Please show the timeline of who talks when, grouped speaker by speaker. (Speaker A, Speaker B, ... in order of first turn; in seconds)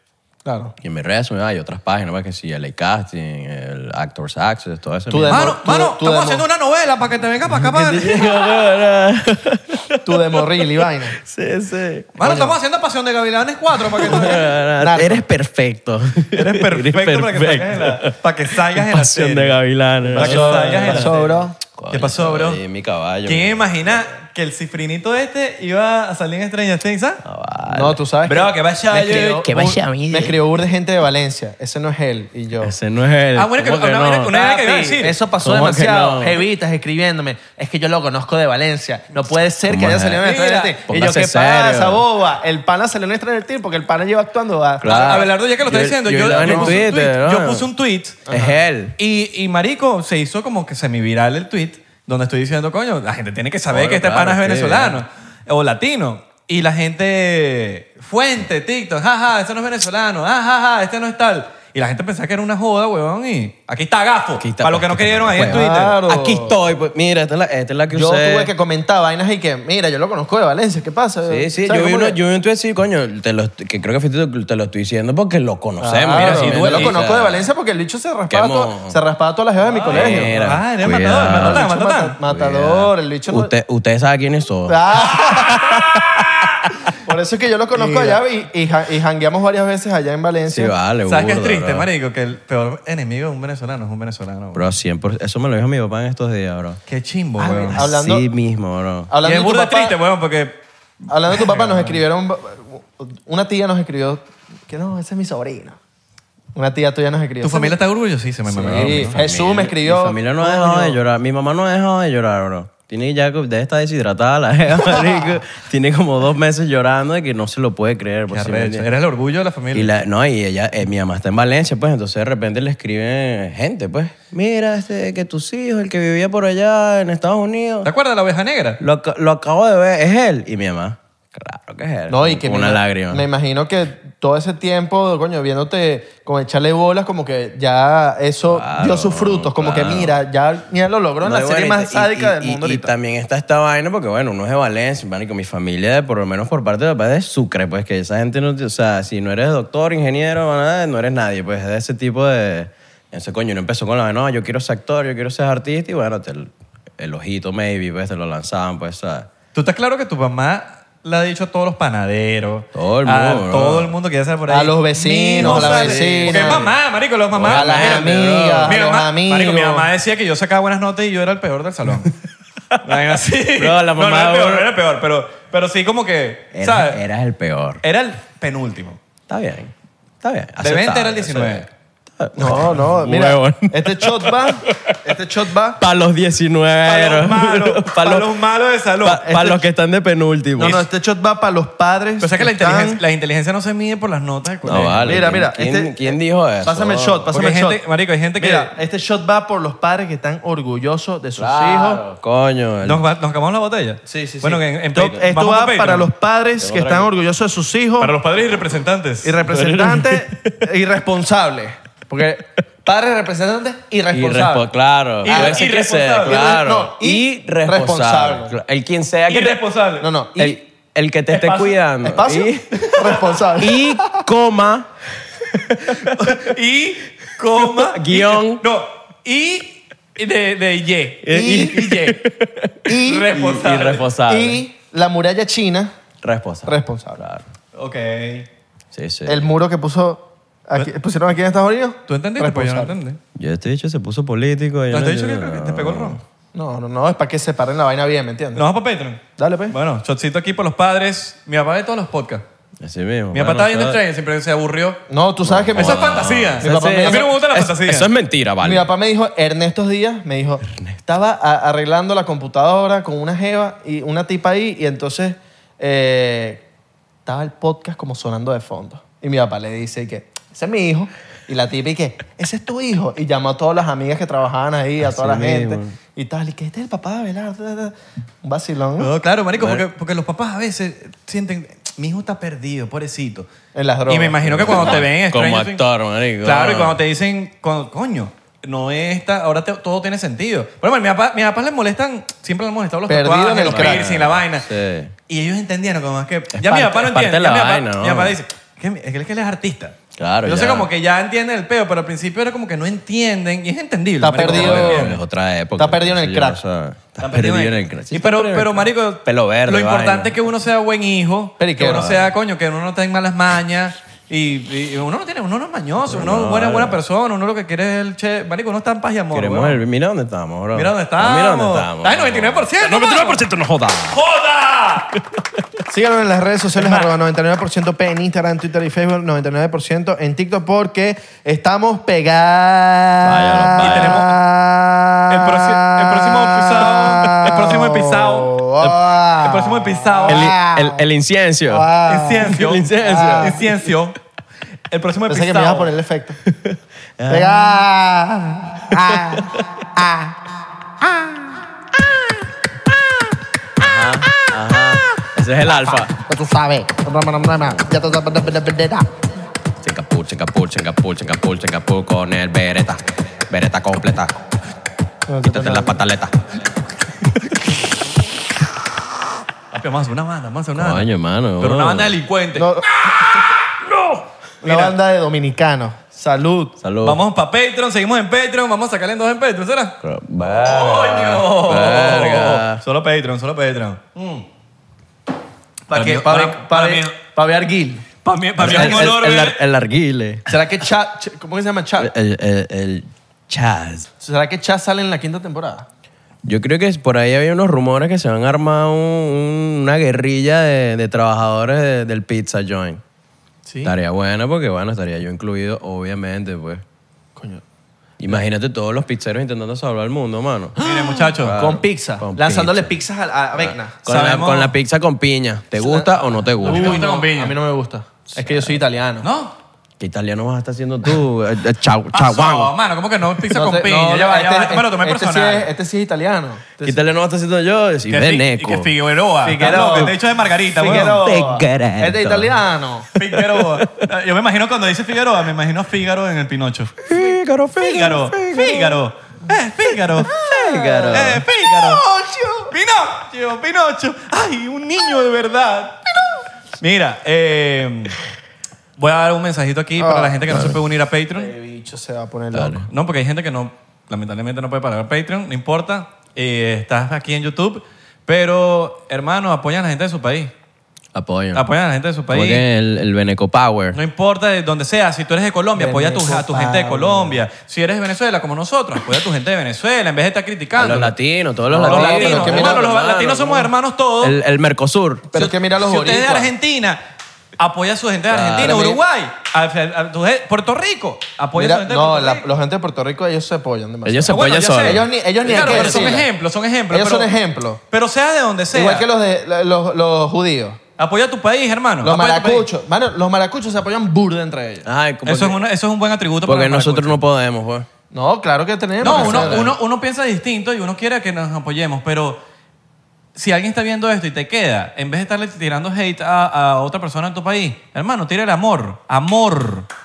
Speaker A: 0.5-0.7, 5.1-6.5, 10.1-11.2, 12.2-12.6, 14.1-15.2, 20.1-21.6, 27.7-32.7, 34.3-45.3, 46.3-46.9, 48.3-48.6, 65.4-66.6, 67.9-72.2, 75.8-80.3, 81.4-83.5, 84.7-86.1, 87.0-90.8, 97.4-98.3, 99.1-100.0, 101.1-105.8, 106.5-107.8, 108.5-111.0, 114.9-115.3, 132.1-142.9, 164.5-166.8, 167.4-169.9, 182.4-185.8, 189.3-189.6, 190.6-193.0, 195.1-197.8, 198.4-202.0, 204.1-208.2, 209.2-214.6, 215.2-215.7, 216.2-218.6, 220.0-220.6, 222.0-224.2, 231.3-232.1, 232.9-233.4, 234.2-235.9, 236.7-237.2, 239.3-242.9, 246.6-248.7, 249.4-249.8, 255.1-257.3, 258.6-266.6, 267.3-279.1, 283.8-285.0, 293.1-294.1, 304.2-305.2, 305.8-306.6, 311.6-312.3, 325.9-341.0, 341.7-343.7, 345.3-346.4, 347.3-350.4, 355.8-359.1, 365.3-366.0, 372.6-373.5, 374.6-376.8, 385.9-388.1, 388.6-389.1, 390.5-392.1, 394.2-395.9, 403.6-403.9, 407.4-407.6, 410.8-414.0, 415.8-419.3, 423.5-427.0, 429.4-433.1, 440.2-442.7, 450.0-450.5, 451.3-452.9, 465.8-467.4, 471.7-472.9, 475.3-476.5, 478.6-479.0, 481.6-486.3, 486.9-487.8, 488.7-490.8, 492.0-494.9, 498.1-499.8
Speaker B: 0.8-5.6, 7.5-12.1, 14.0-21.1, 21.8-24.1, 27.2-28.0, 29.4-30.3, 32.6-34.3, 35.4-36.4, 39.7-40.2, 40.9-42.0, 44.8-47.7, 48.3-49.0, 53.7-55.0, 64.4-68.5, 71.3-77.5, 78.3-79.0, 79.9-81.7, 82.3-85.4, 87.8-88.1, 90.5-91.9, 94.5-96.8, 97.8-99.1, 108.5-118.9, 119.7-127.9, 128.8-133.3, 138.5-140.1, 141.2-159.3, 162.8-163.9, 165.4-166.7, 167.3-168.8, 173.6-174.7, 176.5-177.8, 179.3-185.0, 185.8-188.3, 189.0-190.8, 194.6-197.3, 201.4-203.0, 206.6-207.1, 209.4-210.6, 214.1-219.6, 220.4-222.9, 223.6-224.9, 225.5-226.5, 227.7-228.6, 231.3-234.6, 236.2-237.5, 238.9-239.4, 243.3-246.2, 252.8-254.0, 255.4-258.9, 260.7-261.0, 275.0-275.9, 279.6-279.8, 284.4-287.0, 293.7-295.1, 296.5-298.4, 300.2-300.9, 304.4-310.4, 316.0-317.0, 319.3-324.2, 333.2-334.2, 340.3-341.9, 342.4-343.6, 346.4-347.8, 348.9-349.7, 353.8-356.1, 357.6-357.9, 359.8-364.4, 365.4-366.4, 370.8-372.2, 376.8-377.2, 380.0-382.8, 388.6-390.5, 392.0-394.1, 396.4-403.0, 403.8-406.8, 408.2-410.8, 411.4-412.9, 413.6-417.1, 418.3-418.8, 420.0-422.7, 426.8-428.9, 429.6-430.1, 431.2-432.6, 433.1-434.1, 437.0-439.0, 440.2-441.4, 450.5-450.8, 452.5-452.9, 461.1-461.6, 462.3-464.0, 470.8-475.3, 478.3-478.8, 484.1-486.2, 494.9-495.6, 496.4-497.9, 499.0-499.8
Speaker C: 5.3-8.4, 12.2-14.6, 16.3-19.6, 20.2-22.6, 23.3-27.2, 28.2-29.6, 33.4-35.1, 40.2-40.8, 44.9-48.3, 49.0-66.0, 76.2-76.9, 79.7-82.2, 85.1-86.7, 91.1-94.6, 96.9-97.8, 99.2-100.6, 101.3-102.0, 107.4-109.2, 118.3-119.9, 127.8-128.8, 159.5-172.1, 172.8-177.0, 177.8-179.0, 180.6-181.7, 186.9-189.4, 190.6-190.9, 192.2-195.2, 197.3-198.7, 202.8-206.1, 208.0-209.4, 215.2-216.5, 219.3-220.1, 221.4-221.7, 225.8-232.2, 233.0-234.1, 237.8-238.5, 242.1-243.2, 244.9-246.2, 248.6-252.4, 253.3-255.0, 255.8-258.1, 279.0-283.5, 284.1-285.8, 286.4-294.7, 295.3-305.2, 307.2-319.8, 320.7-323.4, 324.1-325.1, 326.8-327.1, 333.8-334.4, 335.3-340.6, 342.1-344.2, 344.9-345.9, 369.7-371.1, 371.6-374.9, 377.0-379.9, 380.5-384.4, 385.9-387.2, 388.2-389.6, 410.8-411.6, 414.1-414.7, 416.6-417.6, 419.2-419.5, 422.1-425.7, 428.1-431.2, 433.2-437.2, 437.8-440.3, 441.1-442.0, 442.7-446.1, 446.8-448.2, 449.0-451.5, 452.9-460.5, 461.5-462.6, 463.9-471.1, 471.8-474.4, 475.4-477.0, 477.6-482.4, 484.3-487.3, 487.9-489.1, 491.0-492.7, 495.2-497.2, 499.0-502.4, 503.4-509.9